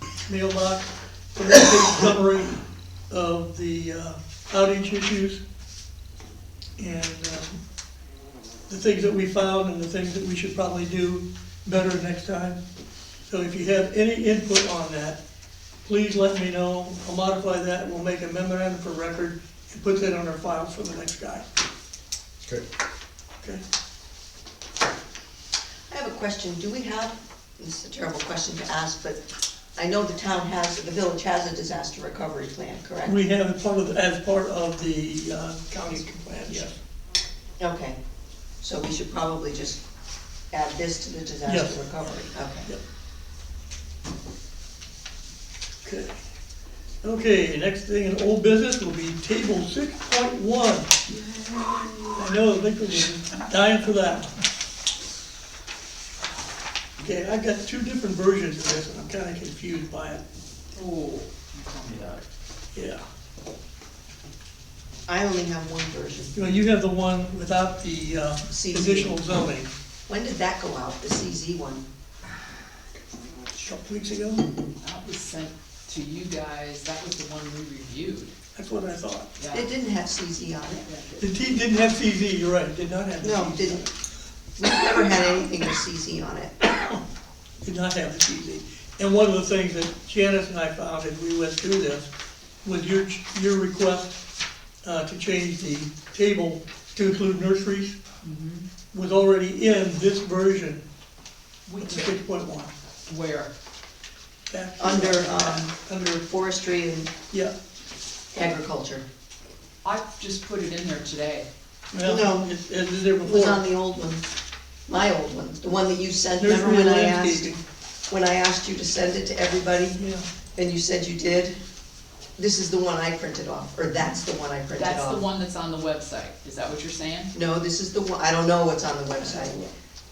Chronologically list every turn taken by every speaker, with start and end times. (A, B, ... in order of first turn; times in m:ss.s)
0:00.3-0:05.4 A
0:06.8-0:07.6 A
0:08.7-0:12.6 A
0:13.3-0:15.2 A
0:15.8-0:21.4 A
0:25.9-0:29.2 B
0:29.8-0:33.2 B
0:33.0-0:36.7 A
0:37.6-0:38.0 B
0:38.6-0:39.8 B
0:40.5-0:42.7 B
0:41.4-0:41.8 A
0:45.8-0:46.2 A
0:47.0-0:51.0 A
0:51.1-0:52.2 C
0:52.2-0:54.3 A
0:57.0-1:00.2 A
1:00.7-1:02.2 C
1:02.7-1:03.0 A
1:05.0-1:06.5 B
1:06.3-1:09.7 A
1:08.5-1:09.2 B
1:10.1-1:11.9 B
1:13.6-1:14.4 A
1:14.8-1:18.3 C
1:18.5-1:19.3 A
1:19.4-1:19.7 C
1:19.5-1:20.8 B
1:20.8-1:21.3 C
1:21.2-1:23.9 A
1:23.2-1:23.9 B
1:24.6-1:26.6 B
1:26.6-1:27.0 A
1:27.6-1:32.1 A
1:32.6-1:34.2 A
1:34.8-1:38.0 A
1:38.2-1:38.6 C
1:38.9-1:40.8 A
1:41.6-1:42.2 C
1:41.8-1:42.7 A
1:43.0-1:43.5 C
1:44.5-1:46.2 A
1:44.8-1:47.1 B
1:48.3-1:49.0 B
1:49.8-1:51.5 C
1:51.9-1:53.6 A
1:52.0-1:52.5 B
1:53.2-1:54.2 B
1:54.9-1:57.5 B
1:56.4-1:57.6 A
1:58.1-2:00.0 B
1:59.9-2:00.2 A
2:00.6-2:01.6 B
2:02.4-2:05.2 B
2:04.7-2:07.3 C
2:07.3-2:09.6 B
2:09.2-2:09.7 A